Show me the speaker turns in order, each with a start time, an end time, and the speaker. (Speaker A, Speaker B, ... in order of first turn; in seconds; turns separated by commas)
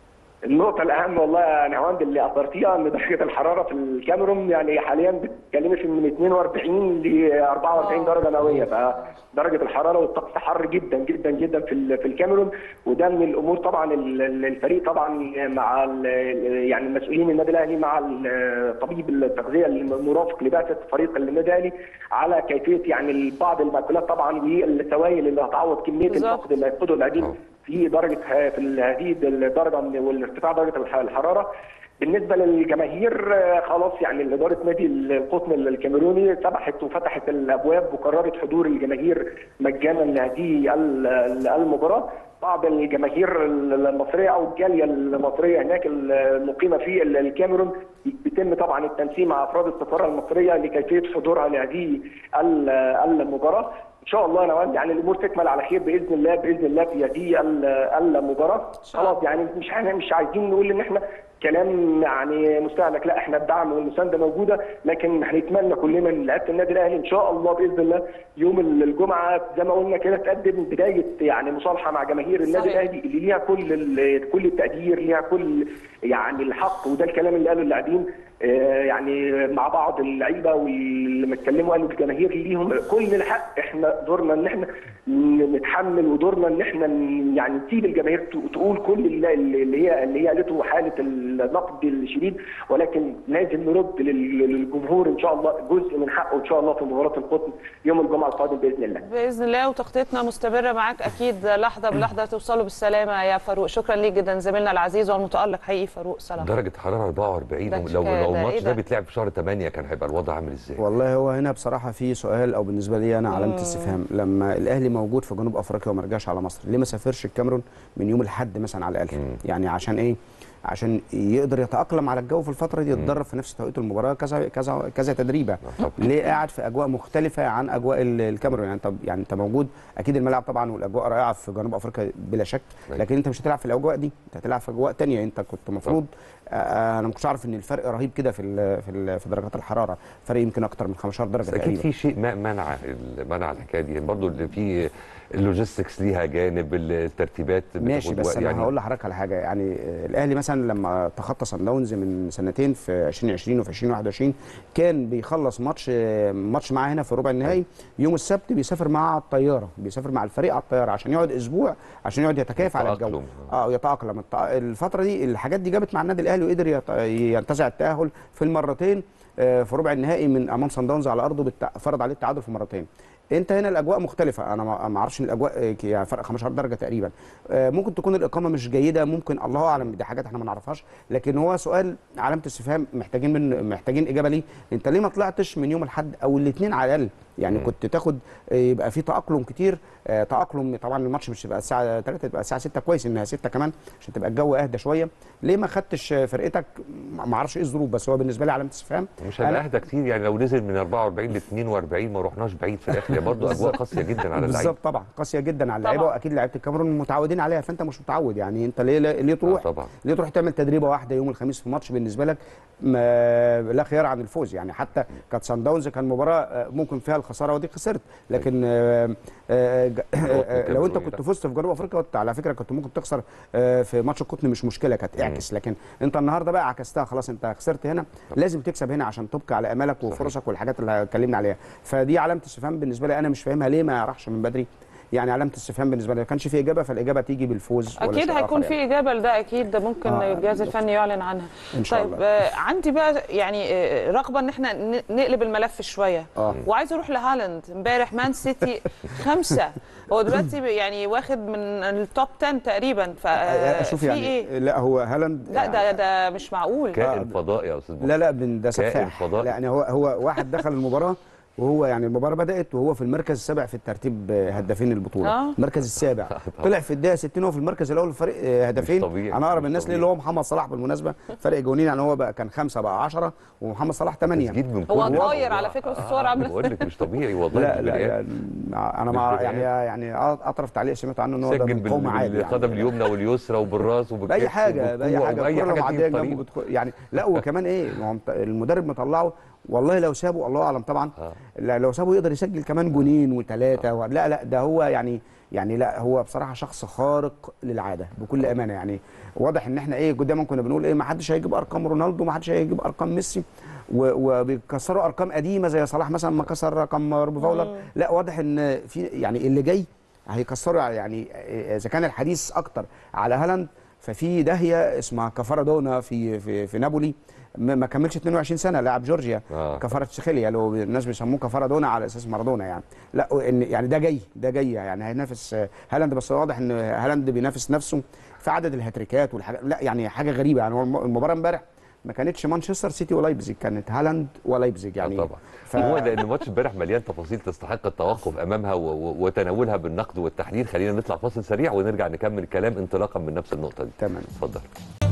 Speaker A: 0.5-31.5, Speaker B: 7.8-8.1, Speaker B: 26.1-26.4, Speaker A: 32.0-99.0, Speaker B: 58.9-59.2, Speaker B: 72.5-72.9, Speaker B: 99.0-106.5, Speaker C: 106.4-110.8, Speaker B: 107.7-108.8, Speaker D: 110.8-141.9, Speaker B: 113.3-113.9, Speaker C: 125.7-126.0, Speaker C: 141.5-148.7, Speaker D: 147.8-199.6, Speaker C: 162.6-163.5, Speaker C: 199.2-204.7, Speaker D: 203.3-203.8, Speaker D: 204.3-238.8, Speaker B: 205.8-206.1, Speaker C: 209.4-209.9, Speaker C: 220.2-221.2, Speaker B: 238.0-254.5, Speaker D: 240.1-240.8, Speaker D: 241.7-242.2, Speaker D: 253.4-255.9, Speaker B: 255.5-257.0, Speaker C: 256.9-258.1, Speaker D: 257.0-257.4, Speaker D: 258.0-275.4, Speaker C: 258.7-259.5, Speaker B: 265.2-265.6, Speaker C: 266.3-266.7, Speaker C: 268.8-270.1, Speaker C: 274.3-278.2, Speaker B: 274.9-276.9, Speaker D: 277.5-283.0, Speaker C: 279.1-279.7, Speaker C: 281.4-286.4, Speaker D: 284.3-336.2, Speaker C: 319.5-319.9, Speaker C: 335.0-344.7, Speaker D: 344.0-344.3